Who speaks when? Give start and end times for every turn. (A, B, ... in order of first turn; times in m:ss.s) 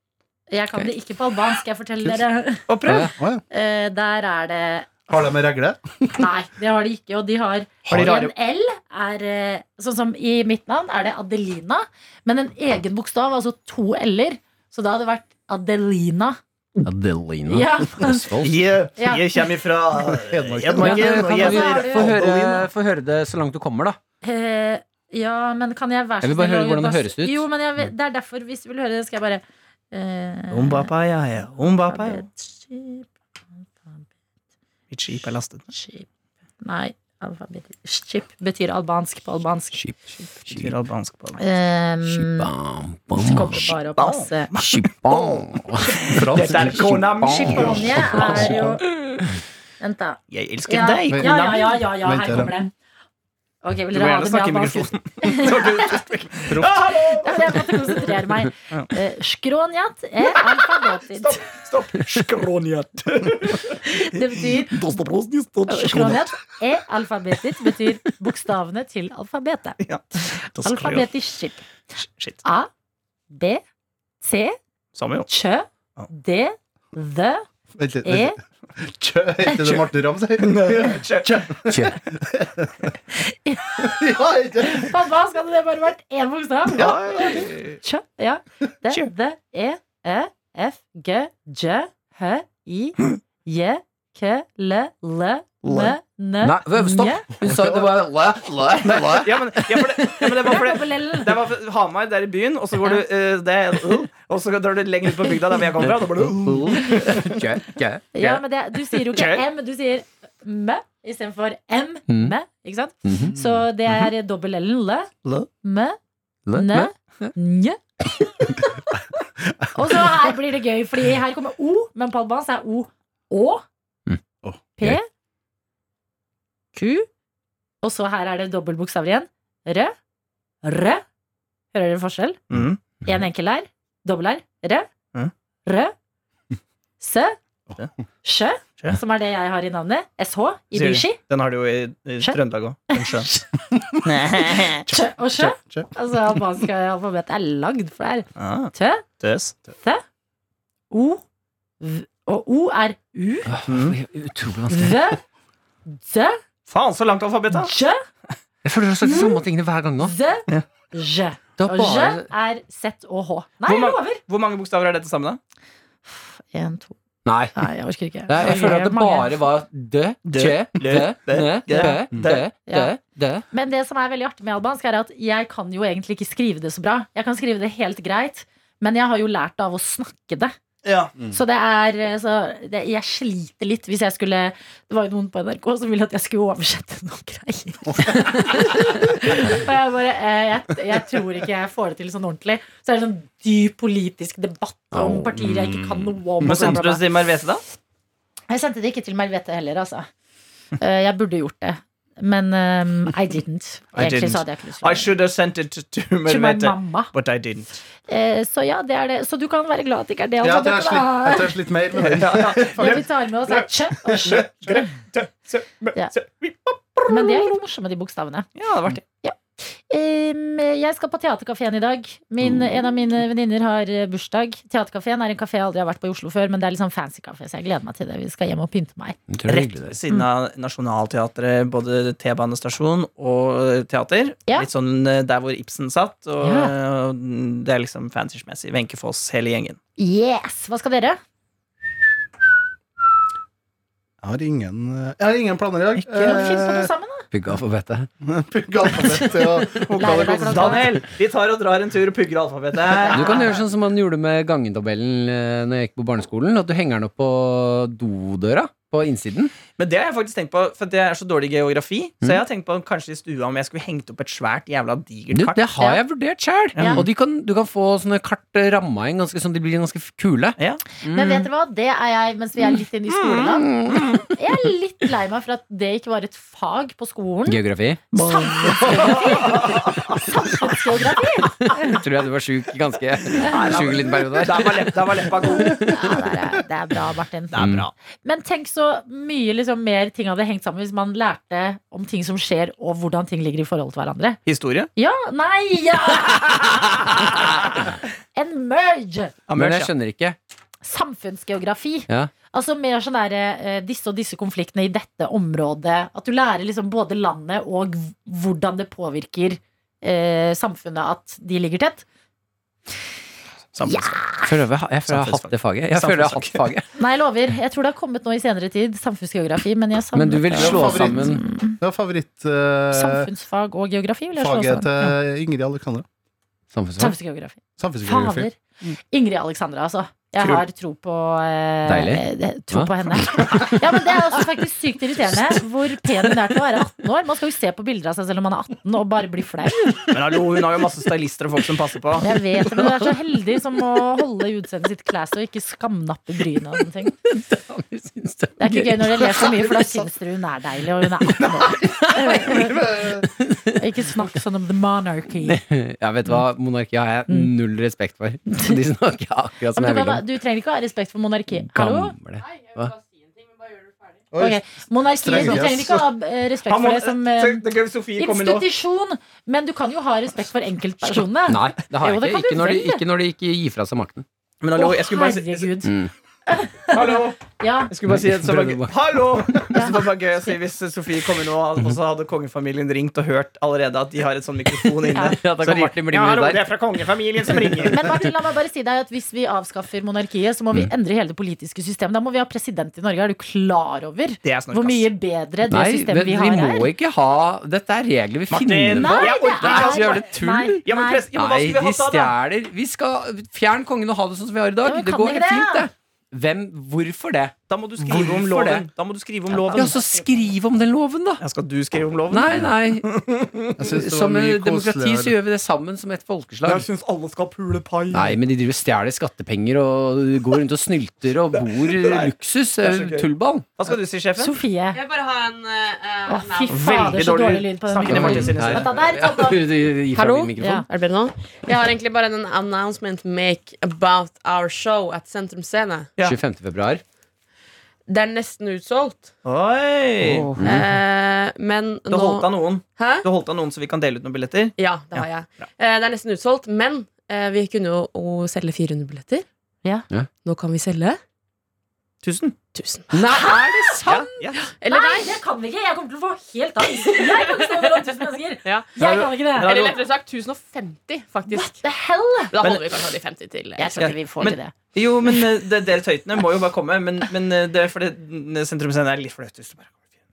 0:00.5-0:02.9 A
0:02.7-0:03.1 B
0:02.8-0:03.1 C
0:03.5-0:05.3 A
0:05.1-0:06.2 D
0:06.1-0:16.4 A
0:07.8-0:08.2 D
0:07.9-0:08.3 B
0:16.8-0:18.5 C
0:17.5-0:18.4 A
0:18.4-0:22.2 B
0:19.0-0:19.4 A
0:20.0-0:21.4 D
0:20.8-0:24.0 C
0:21.2-0:22.4 A
0:24.2-0:30.9 A
0:26.2-0:27.4 C
0:30.5-0:32.2 B
0:31.9-0:33.1 A
0:34.9-0:35.7 B
0:35.7-0:36.1 A
0:36.6-0:40.2 A
0:40.5-0:41.4 B
0:41.4-0:42.5 A
0:42.0-0:43.7 C
0:43.1-0:44.5 A
0:43.5-0:48.6 B
0:44.5-0:48.5 C
0:46.1-0:47.0 D
0:47.2-0:48.8 A
0:49.8-0:52.7 A
0:50.3-0:51.8 B
0:51.1-0:52.5 D
0:53.6-0:56.0 A
0:53.9-0:58.1 B
0:56.5-0:56.8 D
0:57.0-1:01.4 A
1:00.4-1:06.2 B
1:03.8-1:04.8 A
1:05.7-1:09.8 A
1:09.8-1:11.1 B
1:10.6-1:11.6 A
1:12.0-1:12.4 B
1:12.4-1:12.7 A
1:13.3-1:13.6 A
1:14.2-1:14.6 A
1:14.9-1:15.3 B
1:15.3-1:17.4 A
1:17.8-1:22.9 D
1:18.0-1:18.4 A
1:19.4-1:19.8 A
1:20.4-1:21.4 B
1:21.7-1:22.0 C
1:23.2-1:24.0 A
1:23.8-1:24.9 D
1:24.6-1:37.3 A
1:26.7-1:27.5 D
1:26.7-1:27.8 B
1:35.6-1:35.9 B
1:36.4-1:39.9 C
1:37.4-1:38.0 D
1:38.8-1:47.4 B
1:40.4-1:41.3 A
1:46.4-1:48.1 C
1:48.1-1:55.1 A
1:48.2-1:49.4 B
1:52.1-1:52.4 C
1:53.0-1:53.4 C
1:55.6-1:56.0 A
1:56.4-1:57.3 C
1:56.5-1:58.6 A
1:59.7-2:03.6 A
1:59.8-2:00.2 D
2:04.8-2:05.1 A
2:06.8-2:07.0 A
2:07.8-2:09.9 A
2:10.6-2:11.0 A
2:11.7-2:12.4 A
2:12.5-2:12.8 B
2:13.0-2:14.9 A
2:15.6-2:15.9 A
2:17.0-2:17.4 A
2:18.2-2:21.2 A
2:20.7-2:23.3 B
2:22.9-2:23.6 A
2:24.0-2:24.9 B
2:24.9-2:29.0 A
2:24.9-2:26.6 D
2:28.4-2:29.6 B
2:30.9-2:31.2 A
2:31.8-2:33.5 A
2:33.5-2:35.0 C
2:33.7-2:34.0 B
2:34.7-2:35.2 A
2:35.8-2:36.4 A
2:36.7-2:37.7 B
2:37.5-2:38.0 A
2:38.6-2:40.1 C
2:39.0-2:39.4 A
2:40.0-2:44.2 A
2:41.6-2:42.3 C
2:43.6-2:45.4 B
2:46.1-2:47.0 A
2:47.2-2:47.6 C
2:47.5-2:49.3 A
2:48.3-2:53.4 C
2:50.2-2:52.4 B
2:51.7-2:52.0 A
2:52.7-2:53.0 A
2:53.5-3:00.5 A
3:00.8-3:01.1 B
3:01.3-3:17.1 A
3:14.9-3:15.7 C
3:16.4-3:17.6 B
3:18.5-3:20.1 A
3:20.8-3:25.1 A
3:23.9-3:27.8 B
3:26.2-3:27.1 A
3:28.1-3:32.2 A
3:30.4-3:33.0 D
3:32.2-3:33.7 B
3:32.7-3:34.9 A
3:34.0-3:34.4 D
3:34.2-3:37.5 B
3:37.1-3:38.5 A
3:38.6-3:39.0 B
3:39.1-3:49.2 A
3:49.3-3:50.0 C
3:49.5-3:59.8 B
3:56.4-3:56.7 A
4:00.0-4:01.2 A
4:04.2-4:06.9 D
4:06.0-4:06.4 B
4:06.1-4:07.3 A
4:07.3-4:08.1 C
4:08.2-4:10.8 D
4:09.2-4:11.0 A
4:10.4-4:13.6 B
4:13.1-4:19.5 C
4:13.1-4:13.5 A
4:19.8-4:25.7 B
4:25.3-4:31.5 C
4:25.8-4:26.0 A
4:26.8-4:27.0 A
4:26.8-4:27.0 B
4:31.1-4:33.7 A
4:33.1-4:33.4 B
4:33.6-4:34.3 C
4:33.9-4:34.2 B
4:34.3-4:37.6 A
4:37.4-4:38.0 C
4:38.1-4:40.1 B
4:38.2-4:42.0 A
4:41.6-4:45.2 C
4:43.4-4:45.9 B
4:45.8-4:47.6 A
4:47.5-4:47.9 B
4:47.5-4:47.9 C
4:48.2-4:54.4 A
4:54.4-4:54.9 B
4:55.0-4:59.3 A
4:59.5-4:59.9 B
4:59.5-5:00.4 C
5:00.8-5:12.0 A
5:13.7-5:14.2 B
5:13.9-5:14.5 A
5:14.4-5:16.8 C
5:15.0-5:16.7 B
5:17.0-5:21.8 A
5:20.1-5:21.4 C
5:20.5-5:23.3 D
5:22.9-5:25.1 A
5:24.4-5:26.0 D
5:26.7-5:27.2 C
5:27.0-5:28.6 A
5:27.8-5:28.5 D
5:29.1-5:40.0 A
5:30.4-5:30.6 B
5:31.8-5:33.4 C
5:40.1-5:42.3 B
5:42.2-5:47.1 A
5:42.4-5:43.4 C
5:47.0-5:49.5 C
5:48.6-5:53.1 A
5:49.4-5:50.0 D
5:51.4-5:53.3 D
5:52.0-5:52.7 C
5:53.4-5:53.8 C
5:53.7-5:55.6 A
5:55.4-6:00.3 C
5:59.7-6:02.2 A
6:01.5-6:02.9 C
6:02.4-6:04.3 E
6:04.3-6:04.6 D
6:04.4-6:07.6 A
6:05.1-6:06.0 D
6:05.4-6:05.8 B
6:06.6-6:08.7 B
6:08.2-6:13.0 A
6:11.4-6:14.2 C
6:14.6-6:15.7 B
6:14.8-6:17.9 A
6:15.8-6:16.1 C
6:16.9-6:28.0 B
6:18.1-6:19.8 C
6:19.7-6:20.0 A
6:25.2-6:26.6 C
6:27.9-6:36.9 A
6:34.4-6:35.1 B
6:35.7-6:40.8 C
6:38.5-6:42.4 B
6:39.0-6:41.3 A
6:41.3-6:48.8 C
6:44.8-6:45.9 A
6:47.7-6:50.2 B
6:49.7-6:51.4 C
6:51.4-6:53.7 B
6:52.3-6:53.1 C
6:53.8-6:55.4 D
6:54.0-6:56.8 C
6:56.6-6:58.4 B
6:58.1-7:03.7 C
7:01.6-7:04.6 B
7:04.4-7:05.0 A
7:04.9-7:07.2 E
7:06.3-7:09.6 A
7:06.7-7:09.0 B
7:08.1-7:10.8 C
7:10.1-7:16.2 E
7:10.6-7:10.9 A
7:16.2-7:17.0 C
7:18.1-7:19.3 E
7:19.4-7:20.5 B
7:20.2-7:23.2 E
7:20.6-7:20.9 C
7:22.1-7:25.6 B
7:24.8-7:29.4 E
7:30.4-7:31.2 E
7:32.2-7:32.6 B
7:32.7-7:35.4 E
7:33.1-7:34.2 C
7:33.3-7:34.0 A
7:34.0-7:34.7 B
7:34.9-7:39.7 A
7:37.0-7:38.1 E
7:38.6-7:41.8 E
7:39.0-7:40.0 B
7:41.5-7:42.5 A
7:42.5-7:44.2 E
7:42.6-7:43.1 B
7:43.8-7:44.7 A
7:44.0-7:49.9 B